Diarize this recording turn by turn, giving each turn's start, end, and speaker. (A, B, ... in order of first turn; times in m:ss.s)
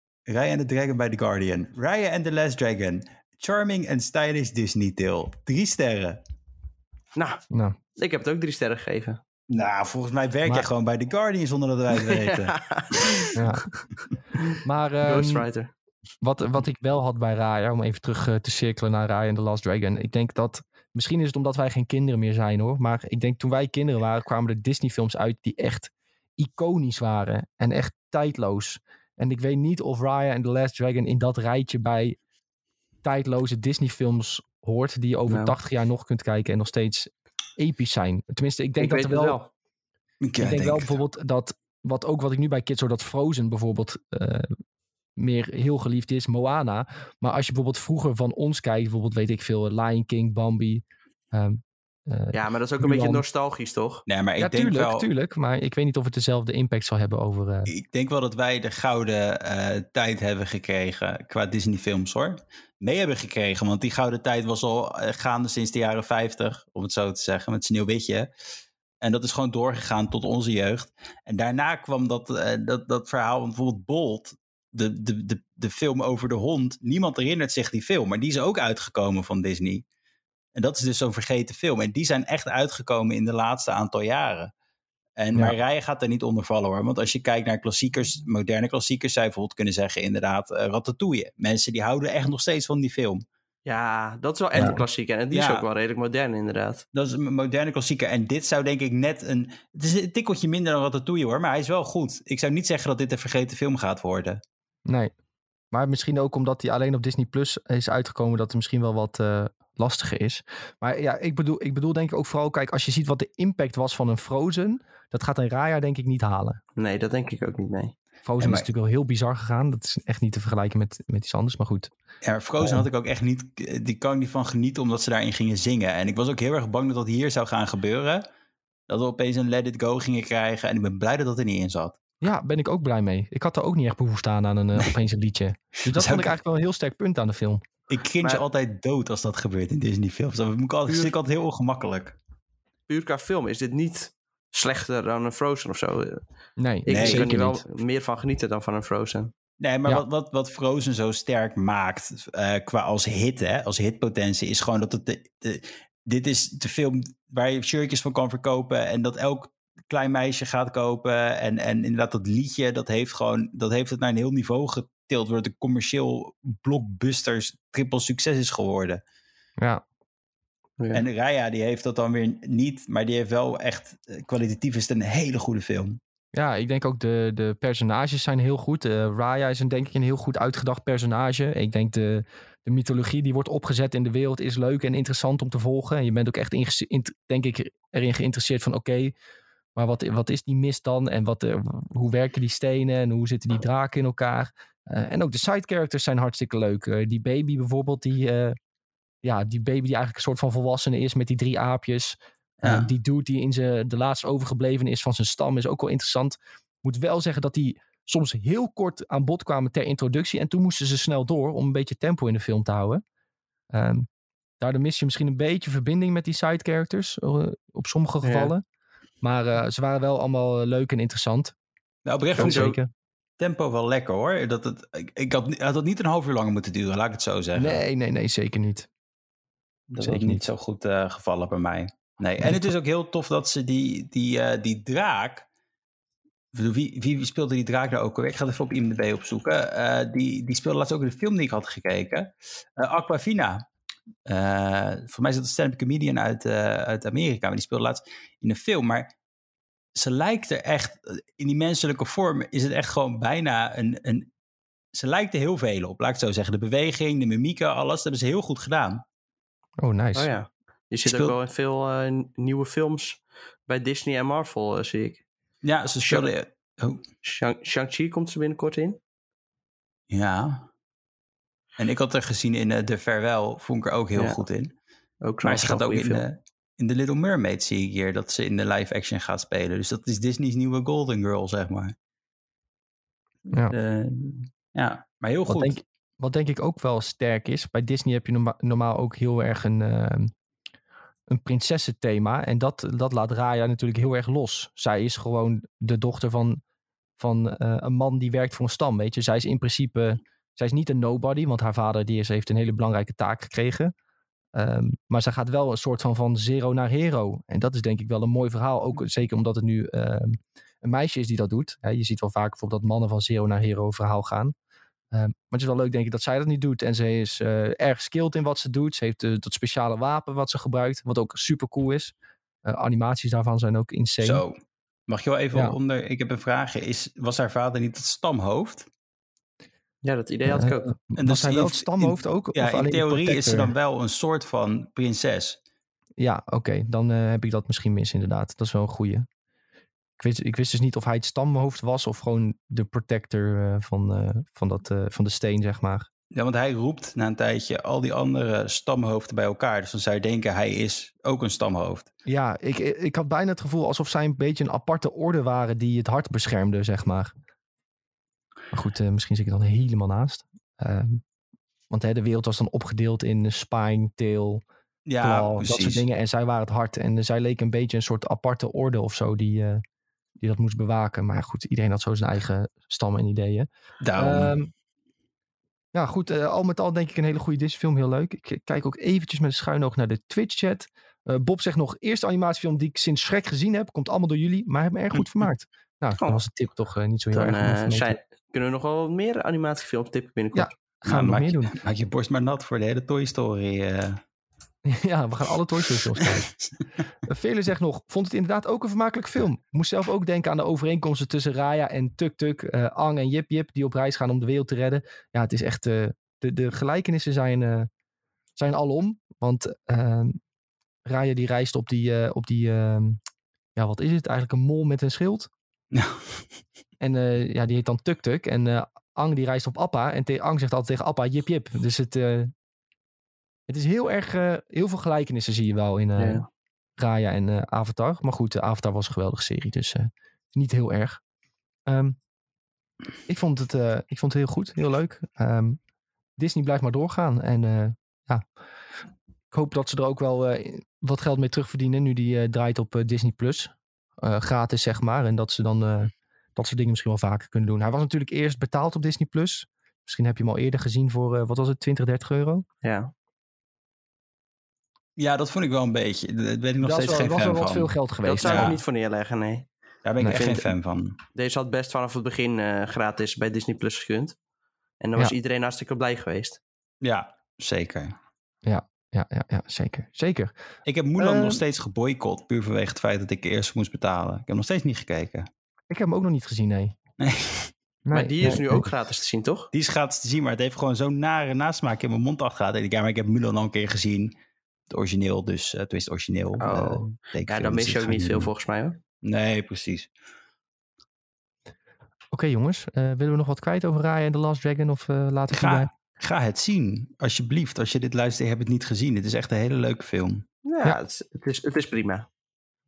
0:00.3-0:06.2 A
0:07.2-0:07.4 B
0:07.5-0:07.8 C
0:08.0-0:09.2 B
0:09.5-0:12.5 A
0:12.0-0:13.3 B
0:13.3-0:13.6 C
0:14.5-0:15.7 B
0:14.6-0:15.4 C
0:16.2-0:32.2 C
0:33.0-0:39.4 C
0:35.3-0:35.5 B
0:38.8-0:39.5 B
0:40.2-0:41.0 A
0:40.4-0:44.6 C
0:45.2-0:53.2 C
0:52.3-0:54.0 B
0:54.1-0:55.1 A
0:54.4-0:57.7 C
0:57.7-1:08.3 A
1:09.0-1:19.8 A
1:20.5-1:24.5 A
1:25.2-1:33.2 A
1:33.7-1:36.8 B
1:35.3-1:35.6 A
1:36.9-1:44.4 A
1:44.9-1:45.1 C
1:45.7-1:56.6 C
1:56.8-1:57.9 B
1:58.2-2:01.9 C
1:58.4-1:58.6 A
2:02.2-2:08.2 A
2:02.6-2:02.8 C
2:08.9-2:12.0 A
2:12.2-2:17.6 C
2:15.8-2:16.4 A
2:17.9-2:22.2 A
2:20.9-2:21.1 B
2:22.9-2:26.2 B
2:26.6-2:27.6 C
2:26.8-2:29.3 B
2:26.9-2:27.3 A
2:29.6-2:49.0 A
2:50.9-2:56.0 A
2:56.3-3:09.1 C
3:09.7-3:18.6 C
3:19.2-3:33.0 C
3:22.6-3:22.9 A
3:33.7-3:34.1 C
3:34.6-3:38.6 C
3:38.2-3:38.5 B
3:39.2-3:41.5 C
3:42.0-3:42.7 A
3:42.4-3:42.8 B
3:42.4-3:42.9 C
3:43.4-3:47.8 A
3:47.5-3:48.9 C
3:49.9-3:55.5 A
3:50.0-3:50.4 C
3:56.5-4:03.6 A
4:04.3-4:09.1 A
4:09.9-4:14.3 A
4:14.9-4:19.0 A
4:19.8-4:20.3 C
4:20.1-4:25.2 B
4:21.0-4:21.3 A
4:25.6-4:27.0 A
4:27.2-4:29.0 B
4:30.1-4:30.7 A
4:31.8-4:34.7 A
4:35.2-4:36.2 B
4:35.4-4:41.9 A
4:43.7-4:45.8 A
4:45.5-4:50.3 C
4:51.3-4:56.6 C
4:57.2-5:03.9 C
5:04.5-5:14.5 C
5:15.1-5:24.4 C
5:24.2-5:24.6 A
5:25.1-5:28.9 A
5:30.0-5:30.9 B
5:30.5-5:33.7 C
5:31.2-5:35.6 A
5:36.2-5:39.3 C
5:40.2-5:46.1 C
5:46.3-5:52.1 A
5:52.2-5:57.3 C
5:58.7-6:01.2 C
6:01.9-6:04.6 C
6:05.0-6:06.0 A
6:05.2-6:09.8 C
6:10.4-6:14.7 C
6:14.0-6:14.6 A
6:15.9-6:28.2 C
6:27.3-6:30.8 B
6:30.5-6:31.8 C
6:31.1-6:34.2 A
6:34.8-6:36.5 C
6:37.2-6:47.9 C
6:48.6-6:50.4 C
6:51.0-6:53.2 C
6:53.8-6:55.5 C
6:55.9-6:56.4 A
6:57.0-7:02.5 C
7:03.7-7:06.4 C
7:06.2-7:06.5 B
7:07.0-7:11.2 C
7:11.9-7:12.2 C
7:13.3-7:15.8 C
7:16.4-7:18.4 C
7:19.5-7:32.6 C
7:32.8-7:33.1 B
7:35.2-7:38.8 A
7:36.8-7:38.7 C
7:38.2-7:39.7 B
7:40.0-7:41.2 A
7:40.3-7:40.7 B
7:41.3-7:44.4 B
7:45.0-7:46.6 B
7:47.0-7:48.1 A
7:48.6-7:50.5 C
7:50.8-7:55.5 A
7:51.2-7:51.6 C
7:55.9-7:56.9 C
7:57.2-7:57.7 A
7:58.0-7:58.9 C
7:58.1-7:59.7 B
7:59.7-8:04.3 A
8:04.9-8:08.5 A
8:06.6-8:09.0 B
8:09.2-8:10.1 A
8:12.3-8:15.9 C
8:15.5-8:20.4 A
8:20.6-8:22.3 B